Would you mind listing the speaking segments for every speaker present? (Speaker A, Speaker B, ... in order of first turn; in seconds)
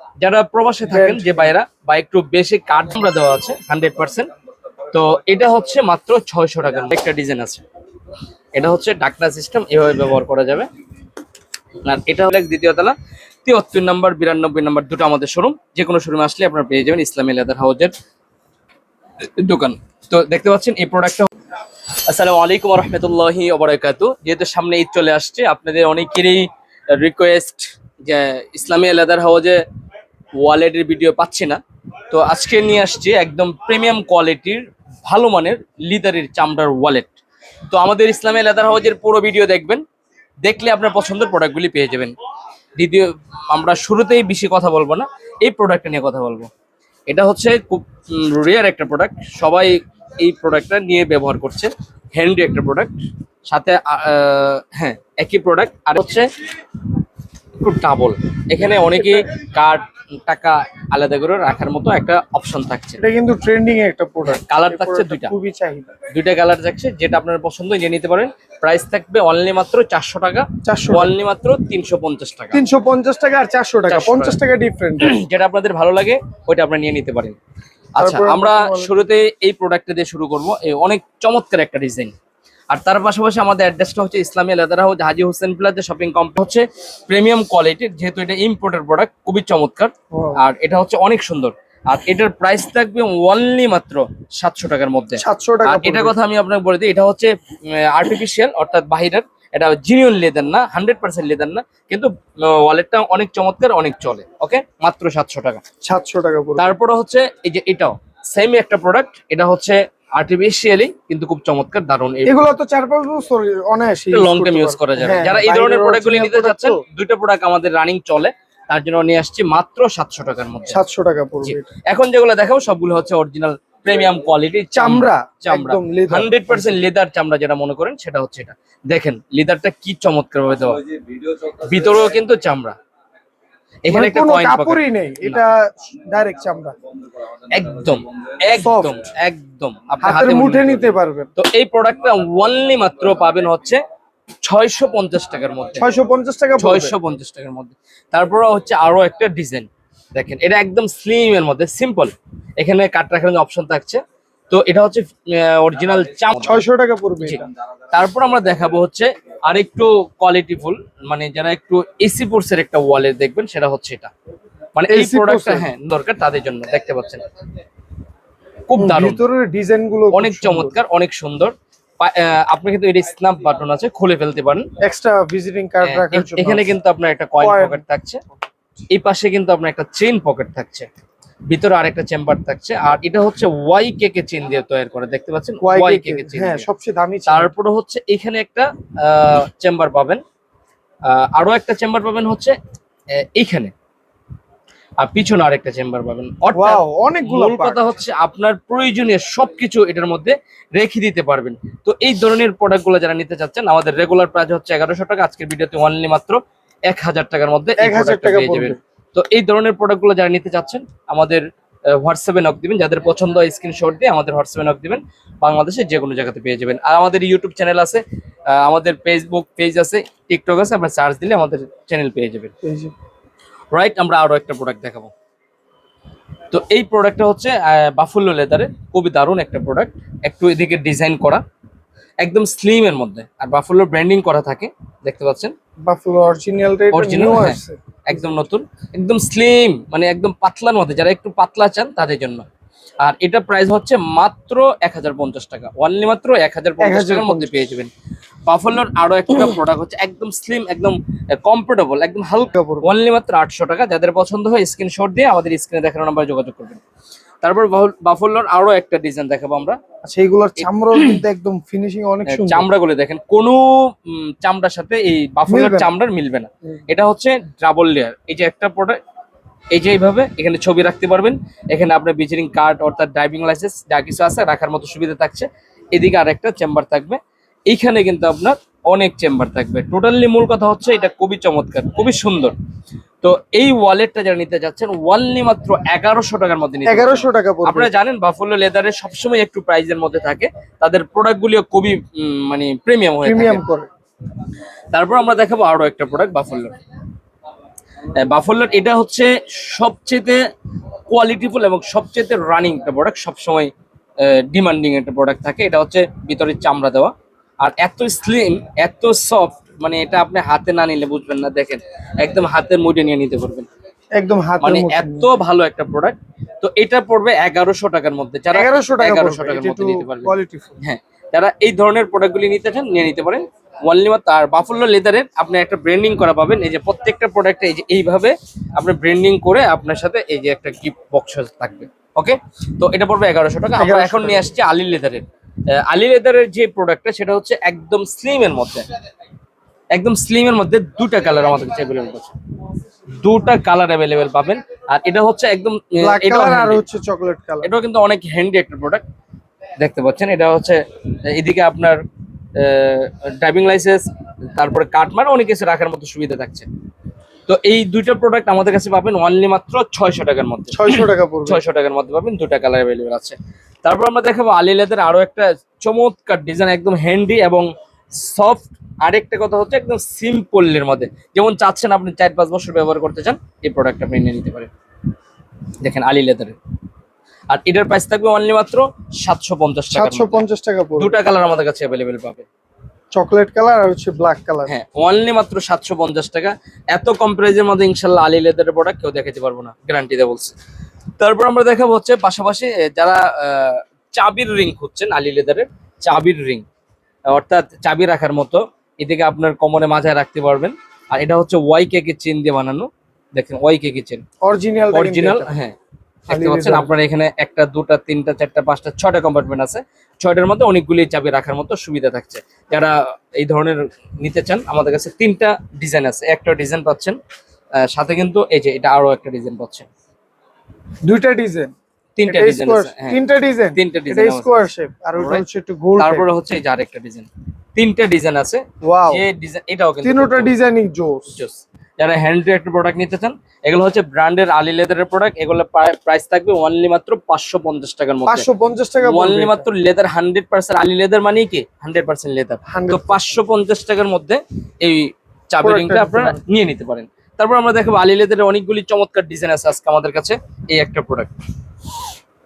Speaker A: 0.2-4.3, 4.9-7.6, 8.6-10.7, 11.8-17.9, 19.4-21.3, 22.1-29.6, 30.4-31.6, 32.1-37.2, 37.7-39.8, 40.4-42.1, 42.8-46.5, 47.1-52.9, 53.5-56.3, 57.6-63.0, 64.2-65.3, 66.1-72.6, 73.9-74.4, 75.0-77.4, 78.0-82.1, 82.7-105.6, 106.6-112.5, 114.1-120.8, 121.5-132.8, 133.8-135.4, 137.5-143.8, 144.4-145.8, 146.6-156.6, 157.2-164.1, 164.8-167.2, 168.7-169.2, 170.1-174.7, 175.8-178.2, 178.9-180.9, 181.5-186.7, 187.3-190.2, 191.1-192.6, 193.1-193.7, 195.0-222.5, 223.7-225.1, 226.5-231.4, 232.2-235.5, 236.9-242.4, 243.0-247.9, 248.5-256.8, 257.4-259.8, 260.6-261.2, 262.3-269.0, 269.7-282.6, 283.2-293.6, 294.9-296.8, 298.1-300.4, 301.1-313.7, 314.6-338.9, 339.9-342.4, 343.2-346.8, 347.6-349.0, 349.8-352.0, 352.6-356.7, 357.5-360.9, 361.5-374.7, 375.8-376.6, 377.5-380.4, 381.0-382.5, 384.7-390.6, 391.2-396.6, 397.3-404.2, 404.9-405.8, 406.3-417.2, 417.8-419.9, 422.2-423.2, 423.8-425.4, 426.0-430.5, 431.4-438.5, 439.0-451.3
Speaker B: 0.9-1.5, 63.0-65.9, 70.7-71.1, 72.5-75.1, 78.0-79.0, 90.1-90.4, 95.2-96.2, 105.8-106.8, 112.3-116.8, 120.7-121.7, 124.7-126.8, 133.9-136.8, 138.6-139.1, 140.0-141.3, 145.8-147.0, 156.4-157.4, 164.9-165.7, 168.8-170.8, 174.8-176.7, 177.4-177.8, 185.6-187.5, 196.5-197.8, 207.8-208.8, 222.6-222.9, 235.9-237.8, 246.8-247.5, 252.5-252.9, 260.0-262.7, 265.5-265.9, 286.9-287.9, 293.2-293.9, 314.2-315.3, 318.5-320.8, 333.8-334.5, 346.0-347.7, 360.7-361.6, 379.9-381.2, 383.1-384.7, 404.4-405.5, 406.3-406.9, 421.1-421.7, 422.3-426.3, 428.8-429.2, 430.0-431.4, 438.3-439.7, 442.7-443.4, 445.6-446.4